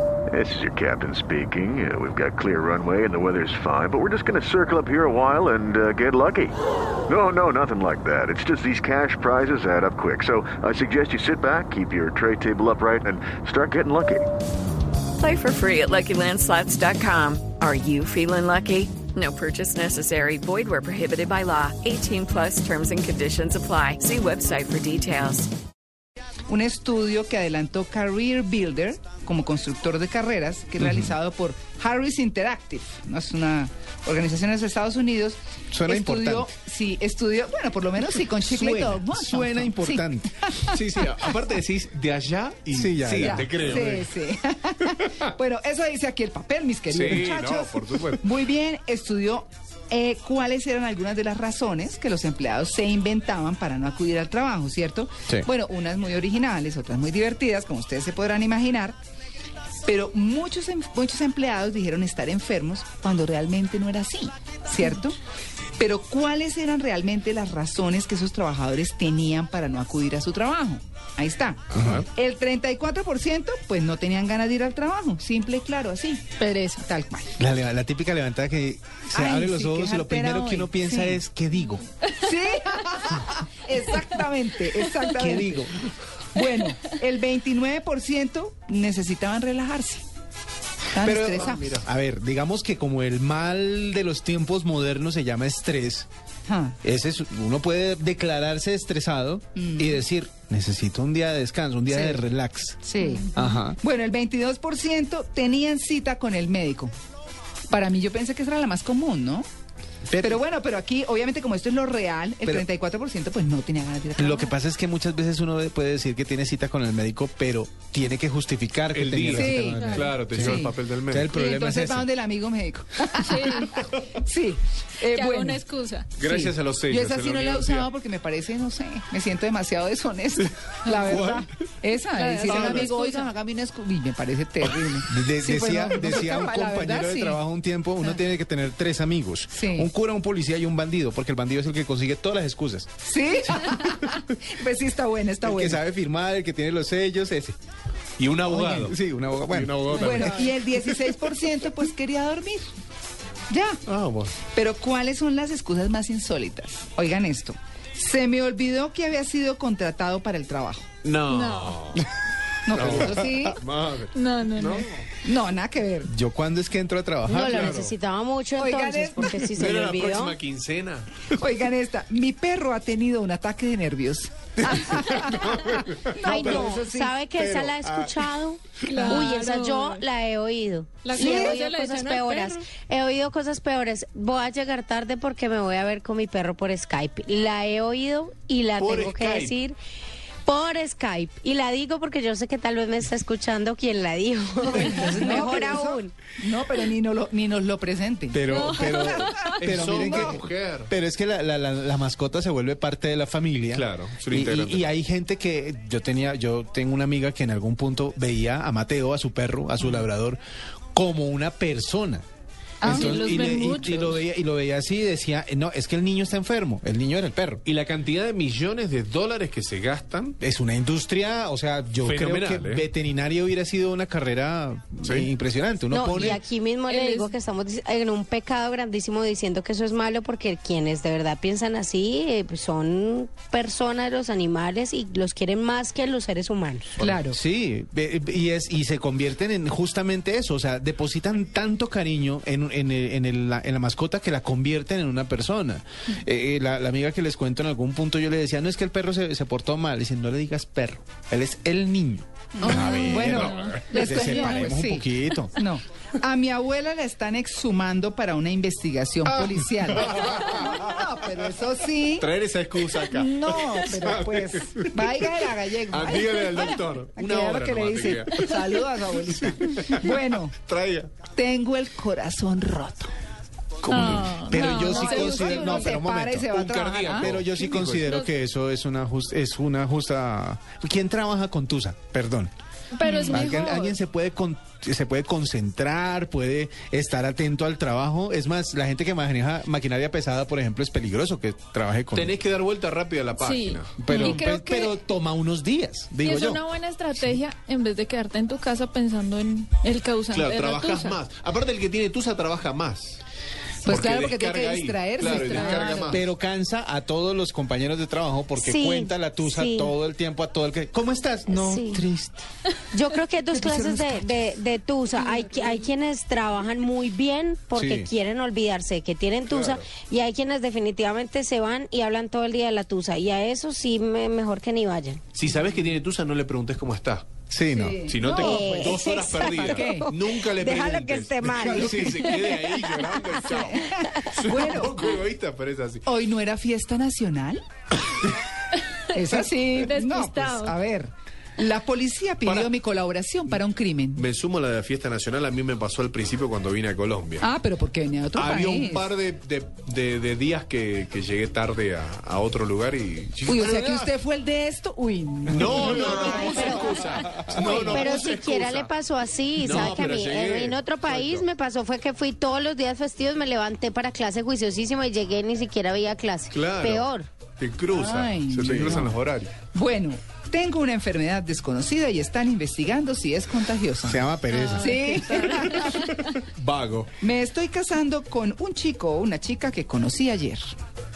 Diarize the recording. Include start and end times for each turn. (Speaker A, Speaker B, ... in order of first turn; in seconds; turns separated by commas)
Speaker A: 0.3-14.3, Speaker B: 15.2-25.5, Speaker C: 26.5-41.0, Speaker D: 30.8-31.1, Speaker D: 35.7-36.5, Speaker D: 38.5-40.3, Speaker E: 40.7-44.1, Speaker D: 42.7-43.6, Speaker C: 43.2-59.0, Speaker E: 46.9-48.3, Speaker C: 59.9-65.2, Speaker C: 65.8-76.3, Speaker D: 71.7-72.0, Speaker E: 71.7-72.0, Speaker F: 76.4-76.9, Speaker C: 76.8-77.3, Speaker D: 77.4-81.8, Speaker C: 79.1-81.2, Speaker C: 82.1-85.7, Speaker D: 85.2-85.8, Speaker C: 86.3-90.0, Speaker C: 90.9-91.7, Speaker D: 91.0-96.1, Speaker E: 91.4-91.9, Speaker C: 96.5-96.8, Speaker D: 96.8-103.8, Speaker C: 99.6-100.0, Speaker C: 101.9-102.2, Speaker C: 102.8-103.3, Speaker C: 103.8-106.9, Speaker C: 107.7-109.5, Speaker C: 110.2-114.5, Speaker D: 114.2-122.1, Speaker E: 118.9-121.3, Speaker C: 119.3-120.8, Speaker F: 119.8-120.1, Speaker C: 121.3-125.6, Speaker F: 123.2-123.7, Speaker F: 125.0-126.2, Speaker E: 126.2-127.9, Speaker C: 126.2-137.4, Speaker E: 131.0-131.5, Speaker F: 132.1-133.3, Speaker E: 132.5-132.9, Speaker D: 135.1-142.9, Speaker C: 139.5-139.9, Speaker C: 143.0-145.8, Speaker D: 145.4-147.6, Speaker E: 148.2-148.9, Speaker D: 148.5-150.4, Speaker E: 149.5-150.5, Speaker C: 149.9-152.6, Speaker C: 153.5-153.8, Speaker E: 153.9-154.4, Speaker C: 154.5-160.9, Speaker E: 161.0-162.1, Speaker F: 161.3-161.8, Speaker C: 162.7-163.6, Speaker E: 162.7-165.1, Speaker F: 164.1-164.9, Speaker C: 165.2-166.1, Speaker D: 166.1-167.8, Speaker G: 167.2-170.4, Speaker E: 167.4-167.9, Speaker C: 168.6-169.5, Speaker E: 169.5-171.2, Speaker C: 171.3-177.2, Speaker G: 176.2-189.8, Speaker D: 176.4-176.6, Speaker D: 177.4-178.1, Speaker F: 178.8-180.1, Speaker F: 181.0-182.7, Speaker C: 181.2-181.6, Speaker E: 188.8-189.6, Speaker G: 190.5-196.2, Speaker C: 194.8-200.4, Speaker D: 198.3-210.4, Speaker F: 198.5-199.6, Speaker E: 199.6-200.9, Speaker E: 203.7-204.9, Speaker D: 210.9-212.2, Speaker C: 212.8-213.4, Speaker D: 212.8-217.6, Speaker F: 212.8-214.2, Speaker E: 217.7-220.4, Speaker D: 220.4-226.4, Speaker E: 222.0-222.8, Speaker E: 225.0-225.3, Speaker G: 225.9-237.0, Speaker F: 226.9-227.3, Speaker D: 237.0-252.3, Speaker C: 237.0-237.4, Speaker C: 252.6-262.3, Speaker E: 252.6-254.0, Speaker F: 252.6-254.7, Speaker D: 252.8-255.6, Speaker E: 259.3-260.6, Speaker E: 262.2-265.3, Speaker C: 262.9-270.5, Speaker E: 265.9-268.8, Speaker E: 269.4-271.1, Speaker C: 271.3-273.1, Speaker E: 273.8-274.4, Speaker D: 273.9-276.5, Speaker F: 273.9-276.0, Speaker C: 274.6-277.4, Speaker E: 276.5-278.1, Speaker D: 277.1-282.5, Speaker F: 283.0-283.9, Speaker C: 283.0-283.6, Speaker D: 283.3-292.4, Speaker E: 292.1-294.0, Speaker F: 293.4-294.6, Speaker D: 294.0-296.6, Speaker C: 294.1-294.9, Speaker F: 296.2-301.2, Speaker E: 300.3-303.2, Speaker C: 303.8-306.2, Speaker E: 303.9-306.2, Speaker F: 305.2-306.0, Speaker D: 306.1-312.4, Speaker G: 308.6-309.9, Speaker G: 311.5-312.1, Speaker G: 312.9-325.2, Speaker C: 313.6-314.3, Speaker D: 317.8-318.1, Speaker E: 319.5-319.9, Speaker E: 325.3-327.3, Speaker D: 327.5-328.0, Speaker C: 327.7-330.1, Speaker E: 328.1-336.1, Speaker G: 328.3-333.1, Speaker D: 331.5-332.3, Speaker C: 333.4-335.1, Speaker C: 336.1-337.6, Speaker F: 338.9-340.8, Speaker C: 339.1-344.2, Speaker E: 342.4-342.7, Speaker E: 344.1-347.5, Speaker C: 347.4-349.1, Speaker E: 348.4-354.1, Speaker C: 353.5-356.8, Speaker E: 355.5-358.9, Speaker G: 355.8-367.3, Speaker E: 359.6-361.5, Speaker E: 366.5-369.5, Speaker C: 367.9-369.1, Speaker D: 368.6-369.1, Speaker C: 369.7-376.1, Speaker D: 374.0-375.2, Speaker F: 374.5-376.2, Speaker E: 375.5-377.1, Speaker C: 377.2-380.7